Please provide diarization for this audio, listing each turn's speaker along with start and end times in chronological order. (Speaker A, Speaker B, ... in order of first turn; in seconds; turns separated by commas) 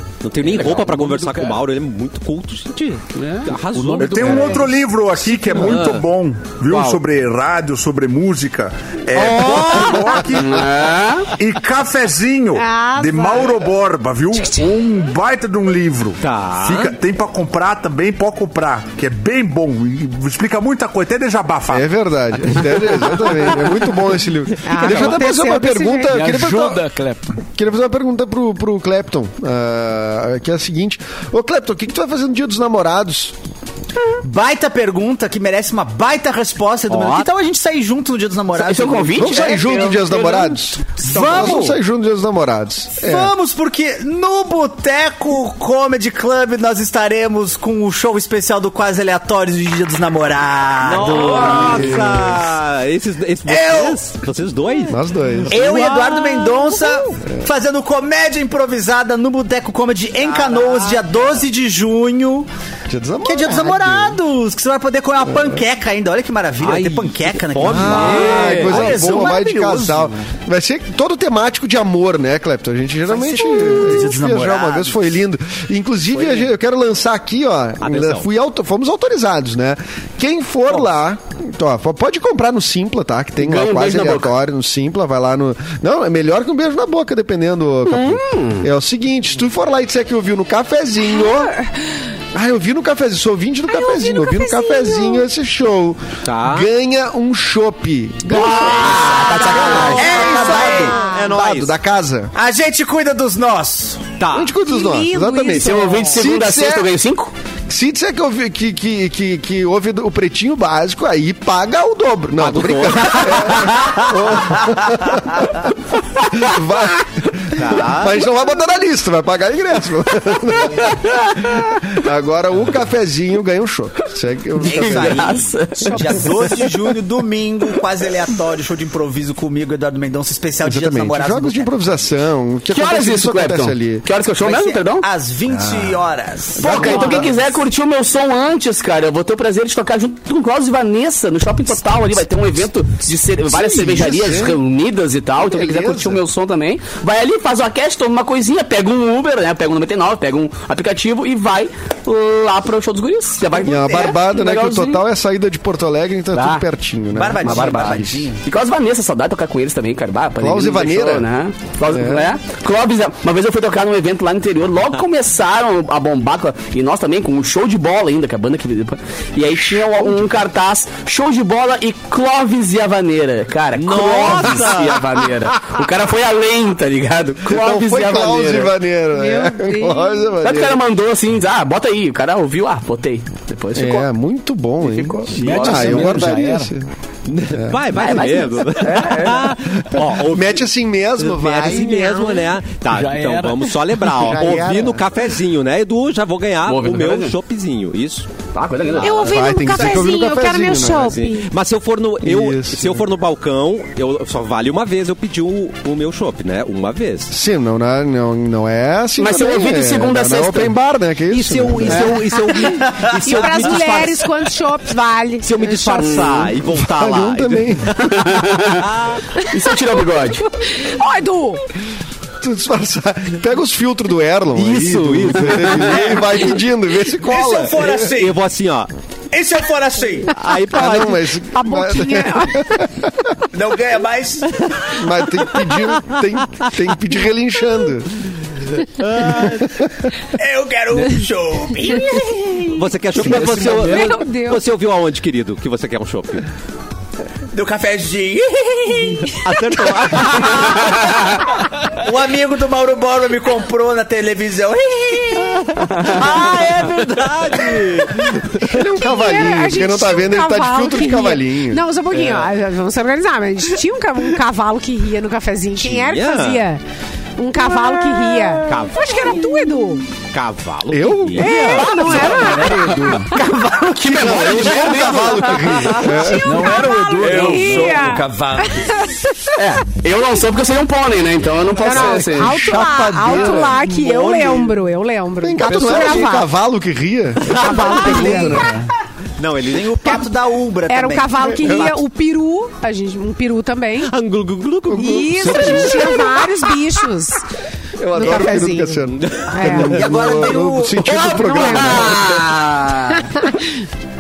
Speaker A: 0.2-4.6, Speaker B: 0.4-1.6, Speaker C: 0.5-0.8, Speaker C: 3.2-3.5, Speaker B: 3.7-4.8, Speaker D: 3.8-21.9, Speaker A: 5.5-6.1, Speaker A: 6.7-7.0, Speaker A: 9.1-10.3, Speaker C: 10.3-11.3, Speaker E: 12.5-13.6, Speaker E: 14.3-14.7, Speaker A: 16.2-16.9, Speaker F: 21.7-26.8, Speaker E: 24.6-26.2, Speaker B: 24.9-25.1, Speaker B: 26.1-27.3, Speaker F: 27.4-33.4, Speaker G: 34.2-39.8, Speaker C: 36.9-37.2, Speaker C: 38.5-40.8, Speaker F: 39.2-43.3, Speaker G: 41.0-41.8, Speaker G: 43.0-52.1, Speaker A: 50.8-55.6, Speaker F: 51.0-52.4, Speaker G: 53.5-54.1, Speaker F: 54.9-55.6, Speaker G: 55.5-62.5, Speaker C: 55.5-56.8, Speaker E: 60.3-60.7, Speaker F: 62.9-64.2, Speaker G: 63.2-70.0, Speaker F: 65.2-65.6, Speaker A: 66.6-69.1, Speaker F: 67.7-91.5, Speaker C: 68.7-69.9, Speaker G: 73.1-75.2, Speaker A: 77.8-78.3, Speaker C: 83.4-84.3, Speaker C: 87.9-88.7, Speaker E: 91.2-91.8, Speaker F: 92.3-102.3, Speaker E: 93.7-95.2, Speaker A: 96.2-96.7, Speaker C: 98.3-100.9, Speaker A: 99.3-101.8, Speaker E: 99.7-101.3, Speaker G: 99.9-101.0, Speaker G: 102.3-104.1, Speaker A: 104.2-104.5, Speaker F: 104.3-106.9, Speaker E: 104.6-106.2, Speaker C: 105.5-107.3, Speaker F: 107.7-115.7, Speaker A: 112.4-114.5, Speaker F: 116.3-125.4, Speaker A: 117.5-118.3, Speaker C: 121.0-121.4, Speaker C: 124.6-126.3, Speaker G: 124.6-131.9, Speaker E: 125.8-126.3, Speaker F: 130.6-134.1, Speaker C: 132.7-135.1, Speaker G: 134.4-137.4, Speaker F: 136.6-137.3, Speaker C: 136.6-155.0, Speaker F: 143.5-144.6, Speaker F: 145.4-146.2, Speaker G: 153.4-154.2, Speaker F: 153.6-158.3, Speaker C: 156.3-156.7, Speaker G: 157.1-158.4, Speaker C: 157.4-178.8, Speaker F: 160.4-161.3, Speaker F: 161.8-162.3, Speaker A: 173.8-175.6, Speaker F: 177.4-180.8, Speaker E: 179.1-180.3, Speaker C: 180.4-184.1, Speaker F: 183.8-186.9, Speaker C: 184.8-186.3, Speaker B: 185.4-186.7, Speaker A: 187.3-198.3, Speaker F: 187.5-187.8, Speaker C: 187.9-189.5, Speaker F: 189.9-192.6, Speaker B: 192.9-194.4, Speaker F: 194.1-195.1, Speaker C: 196.7-197.4, Speaker C: 198.5-199.6, Speaker F: 199.0-201.2, Speaker E: 199.0-201.5, Speaker A: 200.9-207.3, Speaker F: 202.2-203.1, Speaker F: 207.3-212.3, Speaker C: 209.2-210.8, Speaker A: 211.3-214.3, Speaker E: 211.9-216.5, Speaker G: 212.9-213.7, Speaker A: 215.4-219.4, Speaker F: 216.7-217.9, Speaker C: 218.0-218.9, Speaker C: 219.4-220.4, Speaker E: 220.7-221.6, Speaker F: 222.4-228.0, Speaker A: 224.5-226.4, Speaker G: 227.1-228.4, Speaker A: 227.7-228.9, Speaker G: 229.3-230.3, Speaker A: 230.3-231.3, Speaker E: 230.4-230.9, Speaker F: 230.7-233.1, Speaker E: 231.5-232.9, Speaker G: 233.5-235.0, Speaker F: 235.0-238.1, Speaker A: 238.9-239.6, Speaker G: 239.2-239.8, Speaker G: 240.3-242.7, Speaker E: 241.8-242.5, Speaker A: 242.7-246.5, Speaker B: 243.2-244.2, Speaker E: 243.2-244.6, Speaker G: 247.5-255.6, Speaker A: 249.3-251.0, Speaker A: 255.4-258.6, Speaker G: 256.1-256.9, Speaker F: 258.5-261.8, Speaker E: 258.7-266.8, Speaker A: 262.1-262.4, Speaker A: 265.8-266.6, Speaker E: 267.4-270.1, Speaker A: 268.7-269.5, Speaker A: 270.3-272.8, Speaker F: 270.9-271.7, Speaker E: 271.4-273.6, Speaker B: 271.8-273.3, Speaker G: 273.3-279.0, Speaker C: 274.0-276.0, Speaker F: 274.1-276.6, Speaker E: 274.4-279.6, Speaker B: 276.4-278.2, Speaker C: 279.6-282.6, Speaker E: 281.8-286.5, Speaker F: 281.9-283.8, Speaker B: 282.7-283.7, Speaker A: 283.3-284.8, Speaker F: 285.4-288.5, Speaker B: 285.6-286.4, Speaker A: 287.4-288.2, Speaker E: 287.5-288.7, Speaker G: 287.7-288.6, Speaker B: 288.0-288.9, Speaker A: 289.4-290.2, Speaker G: 289.7-292.0, Speaker E: 290.9-294.1, Speaker A: 294.0-296.5, Speaker E: 294.9-297.4, Speaker F: 295.0-295.7, Speaker B: 295.4-296.1, Speaker F: 298.0-302.4, Speaker E: 298.1-300.4, Speaker A: 299.1-299.6, Speaker G: 299.8-302.0, Speaker C: 301.3-303.3, Speaker E: 301.3-302.1, Speaker E: 303.1-303.9